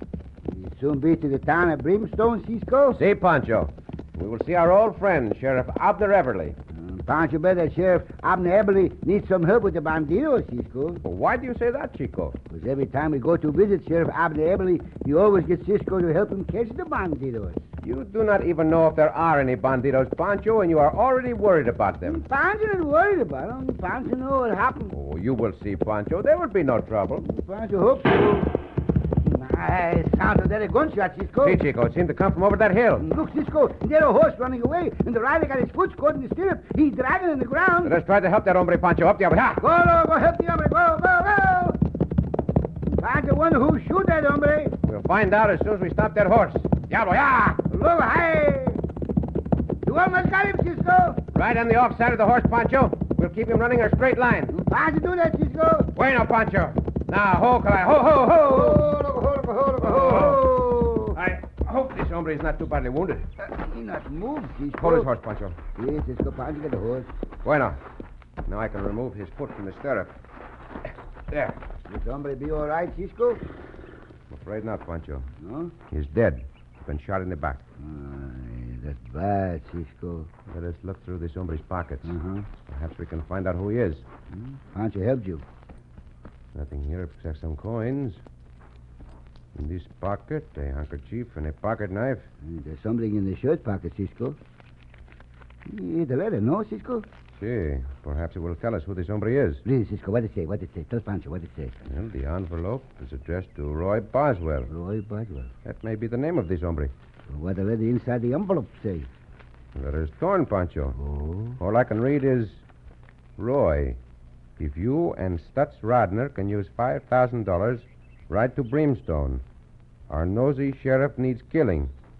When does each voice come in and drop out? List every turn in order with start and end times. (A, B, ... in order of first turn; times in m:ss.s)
0:00.4-0:03.0 A
0:02.9-0:06.6 B
0:06.7-0:11.0 A
0:11.0-0:12.4 B
0:12.5-0:17.6 A
0:17.8-0:22.2 B
0:22.0-0:24.9 A
0:24.9-0:27.2 B
0:27.2-0:28.5 A
0:29.2-0:31.6 A
0:31.4-0:33.1 B
0:33.0-0:37.9 A
0:37.8-0:39.6 B
0:39.6-0:41.8 A
0:42.9-0:44.8 A
0:44.8-0:47.6 B
0:47.7-0:48.8 A
0:49.8-0:51.2 A
0:51.3-0:54.5 B
0:54.5-0:55.9 A
0:55.9-0:58.9 B
0:58.4-1:01.2 A
0:59.8-1:00.5 B
1:01.1-1:03.2 B
1:03.4-1:05.1 A
1:04.8-1:05.6 B
1:05.7-1:07.1 A
1:07.4-1:07.8 B
1:08.5-1:10.2 B
1:11.3-1:11.6 B
1:11.9-1:13.4 A
1:14.3-1:15.3 B
1:15.4-1:15.7 A
1:15.9-1:17.6 B
1:17.8-1:20.3 A
1:20.5-1:22.1 B
1:22.0-1:22.5 A
1:22.7-1:24.0 B
1:24.3-1:25.4 A
1:26.5-1:28.2 B
1:29.5-1:32.2 B
1:32.4-1:34.4 A
1:35.7-1:37.1 A
1:37.4-1:39.6 B
1:39.6-1:41.8 A
1:41.8-1:44.7 B
1:44.7-1:45.5 A
1:45.6-1:46.9 B
1:47.3-1:49.1 A
1:49.8-1:51.0 B
1:51.0-1:51.6 A
1:51.6-1:52.6 B
1:53.4-1:54.0 B
1:54.6-1:59.4 B
2:00.1-2:01.9 B